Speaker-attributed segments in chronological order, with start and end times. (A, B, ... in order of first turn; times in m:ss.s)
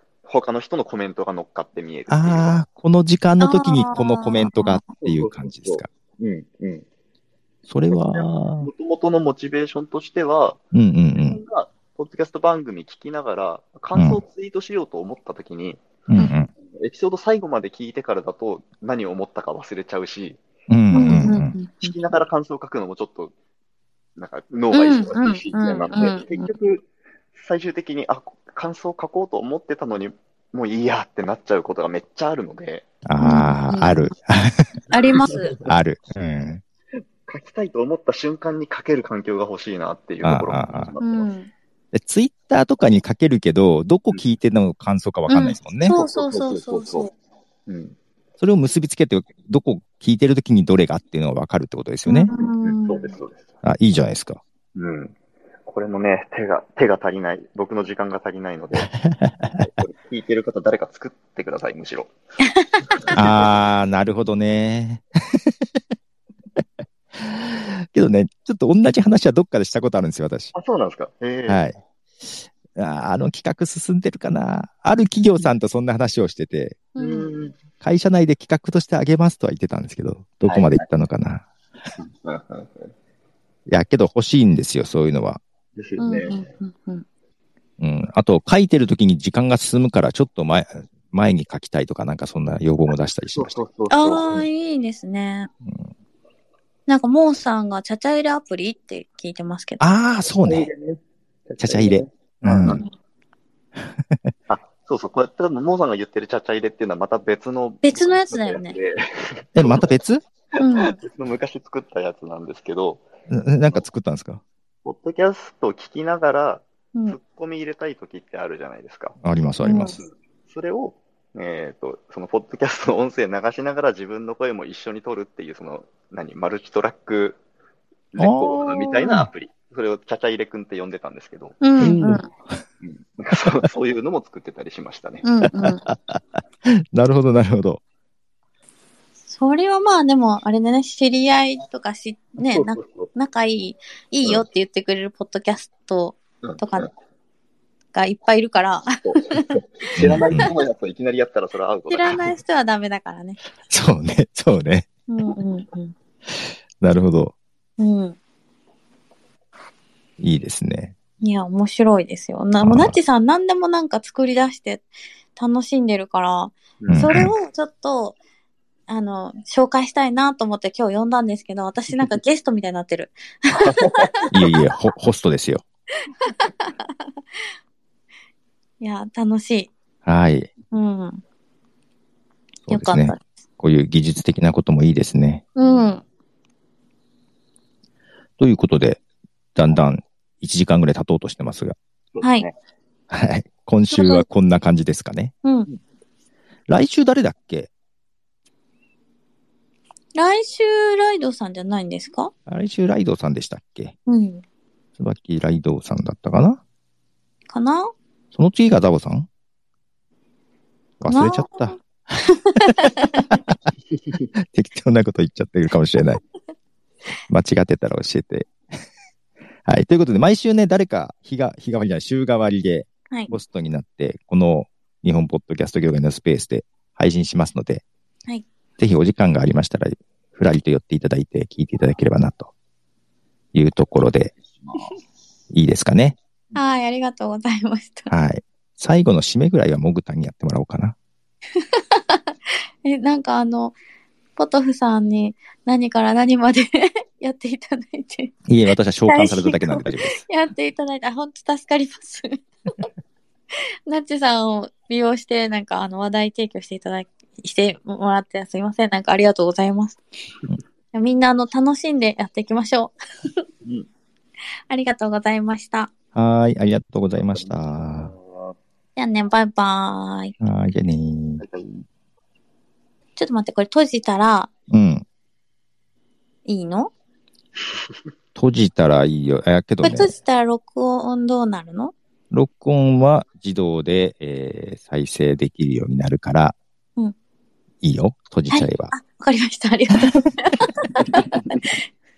0:00.2-0:02.6 A
0:02.1-0:05.9 B
0:03.4-0:04.9 C
0:05.0-0:06.9 A
0:07.7-0:08.7 B
0:07.9-0:10.6 A
0:10.7-0:11.4 B
0:11.1-0:23.3 A
0:14.0-0:14.2 B
0:16.1-0:16.5 B
0:20.7-0:21.5 B
0:21.0-0:21.9 C
0:24.2-0:32.9 A
0:24.7-0:26.5 C
0:33.0-0:34.7 B
0:33.2-0:34.1 C
0:34.9-0:35.6 C
0:35.2-0:35.7 A
0:35.6-0:36.6 B
0:37.3-0:41.3 A
0:40.2-0:41.0 B
0:41.0-0:41.5 C
0:41.9-0:46.0 B
0:45.3-0:47.1 C
0:45.9-0:47.1 A
0:47.7-0:48.0 A
0:48.4-0:52.3 B
0:52.1-0:53.2 C
0:52.3-0:53.4 A
0:53.6-0:54.4 B
0:54.8-0:58.9 A
0:58.9-0:59.7 B
0:59.6-1:02.1 A
1:02.6-1:03.0 C
1:02.8-1:03.6 A
1:03.1-1:05.7 B
1:07.4-1:10.5 B
1:10.5-1:11.6 A
1:11.5-1:16.9 B
1:17.0-1:17.3 C
1:17.0-1:17.6 A
1:17.8-1:21.5 B
1:20.5-1:20.8 A
1:22.0-1:22.9 A
1:23.7-1:25.4 B
1:25.8-1:26.5 A
1:26.0-1:27.0 C
1:27.8-1:33.6 B
1:33.3-1:34.4 A
1:33.9-1:35.5 C
1:35.6-1:35.9 B
1:36.9-1:39.8 C
1:39.8-1:40.7 B
1:40.4-1:42.8 A
1:41.6-1:42.8 B
1:43.8-1:44.3 B
1:44.5-1:49.9 A
1:47.8-1:48.8 C
1:49.6-1:50.2 B
1:50.6-1:51.0 C
1:50.8-1:53.0 A
1:53.3-1:54.4 B
1:54.8-1:59.2 A
1:59.2-2:00.0 B
1:59.6-2:00.0 C
2:00.0-2:07.4 A
2:08.1-2:11.6 A
2:08.2-2:09.3 B
2:11.6-2:12.3 C
2:11.8-2:12.6 B
2:12.8-2:15.2 A
2:15.2-2:15.8 C
2:15.4-2:17.8 B
2:19.3-2:26.9 C
2:22.4-2:23.1 A
2:27.9-2:29.6 C
2:29.1-2:32.2 A
2:30.0-2:30.5 B
2:31.9-2:33.4 C
2:33.7-2:34.9 B
2:35.1-2:35.9 C
2:36.8-2:37.4 B
2:37.8-2:38.2 C
2:40.2-2:40.9 B
2:41.2-2:48.2 C
2:42.6-2:43.0 B
2:46.8-2:47.1 A
2:46.9-2:47.3 B
2:48.9-2:53.7 C
2:53.5-2:54.6 A
2:54.3-2:55.6 B
2:56.2-2:56.7 C
2:58.8-2:59.7 C
3:00.1-3:00.5 B
3:00.7-3:01.2 C
3:02.7-3:05.4 B
3:02.7-3:03.2 C
3:05.6-3:06.0 C
3:08.4-3:09.0 B
3:09.6-3:11.8 B
3:12.2-3:12.6 A
3:12.2-3:12.5 C
3:13.1-3:15.3 B
3:13.9-3:14.2 C
3:16.7-3:17.7 B
3:20.2-3:22.3 C
3:22.5-3:24.0 B
3:24.1-3:24.4 C
3:25.0-3:26.6 B
3:27.5-3:27.9 C
3:28.3-3:29.3 B
3:31.0-3:31.8 B
3:31.1-3:33.3 C
3:32.7-3:33.6 B
3:34.4-3:36.2 B
3:37.3-3:38.5 B
3:39.6-3:47.8 B
3:48.8-3:52.5 B
3:53.5-3:54.3 B
3:54.3-3:55.0 A
3:55.5-3:56.2 B
3:56.6-3:58.1 C
3:58.1-4:01.0 B
4:01.8-4:03.8 C
4:04.4-4:08.4 C
4:08.5-4:10.2 B
4:09.1-4:12.4 C
4:13.9-4:20.0 C
4:20.9-4:22.9 C
4:23.6-4:23.9 A
4:24.7-4:25.9 C
4:26.2-4:28.1 B
4:27.3-4:28.6 A
4:29.0-4:30.3 C
4:30.4-4:31.4 B
4:31.4-4:31.8 A
4:33.2-4:34.5 C
4:34.7-4:35.0 B
4:36.5-4:36.9 C
4:38.4-4:40.1 B
4:39.8-4:41.9 C
4:42.3-4:46.6 B
4:47.8-4:48.9 B
4:48.5-4:51.8 C